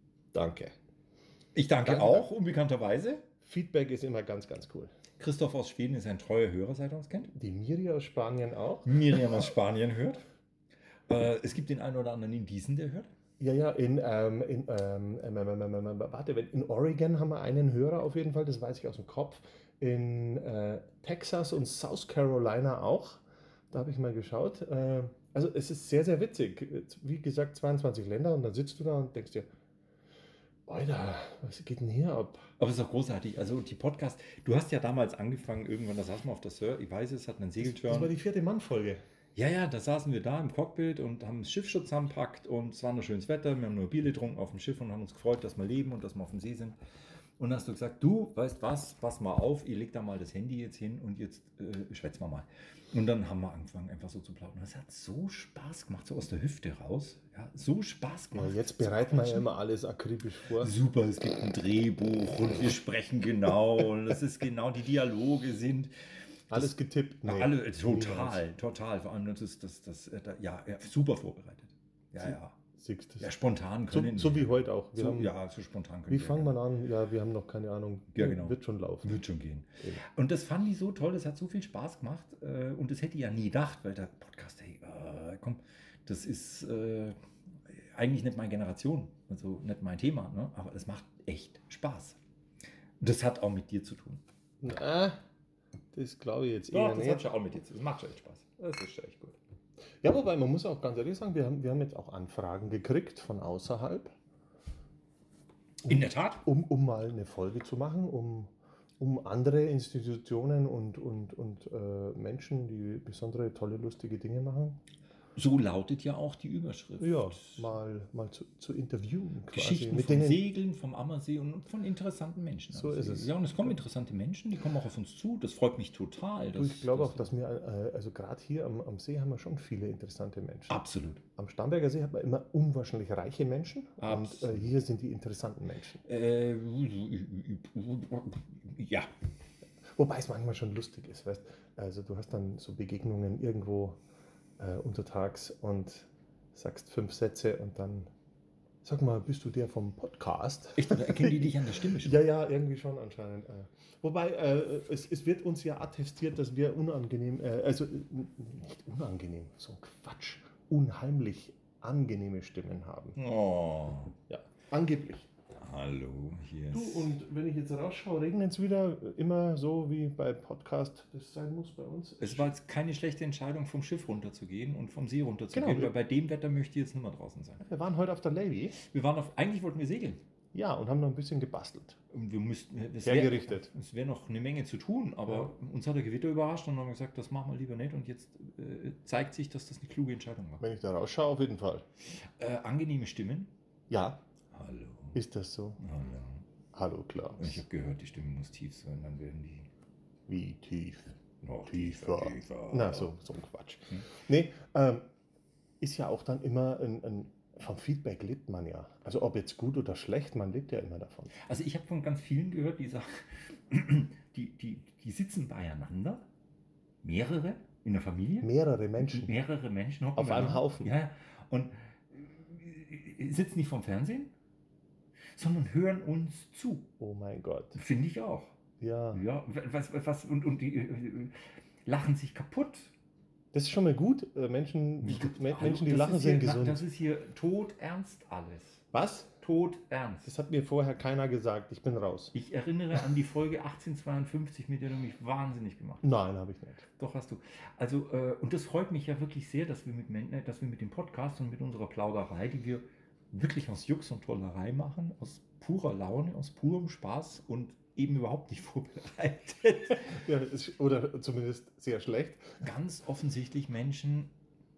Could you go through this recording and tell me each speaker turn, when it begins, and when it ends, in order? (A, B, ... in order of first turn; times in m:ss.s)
0:00.3-0:00.7 A
0:01.5-0:03.2 B
0:01.8-0:02.3 A
0:03.4-0:04.9 A
0:05.2-0:07.3 B
0:07.3-0:09.5 A
0:08.8-0:10.2 B
0:11.1-0:13.1 B
0:13.4-0:29.5 A
0:30.7-0:32.5 A
0:32.6-0:38.1 B
0:37.6-0:39.0 A
0:39.3-0:46.8 B
0:47.4-0:59.5 B
0:58.3-1:00.7 A
1:00.6-1:06.7 B
1:06.5-1:08.4 A
1:07.2-1:12.6 B
1:12.2-1:13.3 A
1:13.2-1:16.6 B
1:13.9-1:15.3 A
1:16.1-1:19.2 A
1:18.1-1:27.2 B
1:27.7-1:32.2 B
1:33.0-1:34.2 B
1:34.6-1:35.2 A
1:35.9-1:37.3 A
1:36.7-1:39.4 B
1:40.0-1:44.1 A
1:45.8-1:46.4 B
1:45.8-1:54.8 A
1:55.4-1:57.7 B
1:57.0-2:00.4 A
1:59.5-2:07.3 B
2:02.7-2:03.7 A
2:06.5-2:10.8 A
2:10.7-2:11.2 B
2:11.3-2:16.0 A
2:14.0-2:14.7 B
2:16.0-2:19.1 B
2:19.9-2:24.0 A
2:24.6-2:28.1 A
2:28.8-2:43.2 A
2:30.8-2:32.1 B
2:43.2-2:44.1 B
2:44.3-2:45.3 A
2:45.6-2:47.1 B
2:46.7-2:52.5 A
2:52.2-2:57.6 B
2:55.5-2:55.9 A
2:57.6-2:58.8 A
2:58.8-3:00.2 B
3:00.5-3:02.0 A
3:02.1-3:10.6 B
3:03.0-3:03.7 A
3:10.6-3:11.8 A
3:12.1-3:13.5 B
3:13.9-3:14.2 A
3:14.5-3:15.2 B
3:15.1-3:15.8 A
3:15.8-3:16.4 B
3:16.7-3:17.6 A
3:17.4-3:19.7 B
3:20.3-3:25.0 A
3:21.4-3:23.1 B
3:25.8-3:31.4 A
3:31.3-3:36.2 B
3:37.0-3:44.3 B
3:38.4-3:39.3 A
3:40.2-3:40.9 A
3:45.4-3:46.9 B
3:47.0-3:47.8 A
3:47.7-3:48.5 B
3:48.8-3:49.2 A
3:49.1-3:52.9 B
3:53.5-3:56.8 A
3:55.0-3:58.8 B
3:58.9-3:59.3 A
3:59.4-4:00.3 B
4:00.2-4:02.3 A
4:02.3-4:06.0 B
4:06.0-4:06.8 A
4:07.0-4:20.2 B
4:20.0-4:22.6 A
4:22.6-4:24.3 B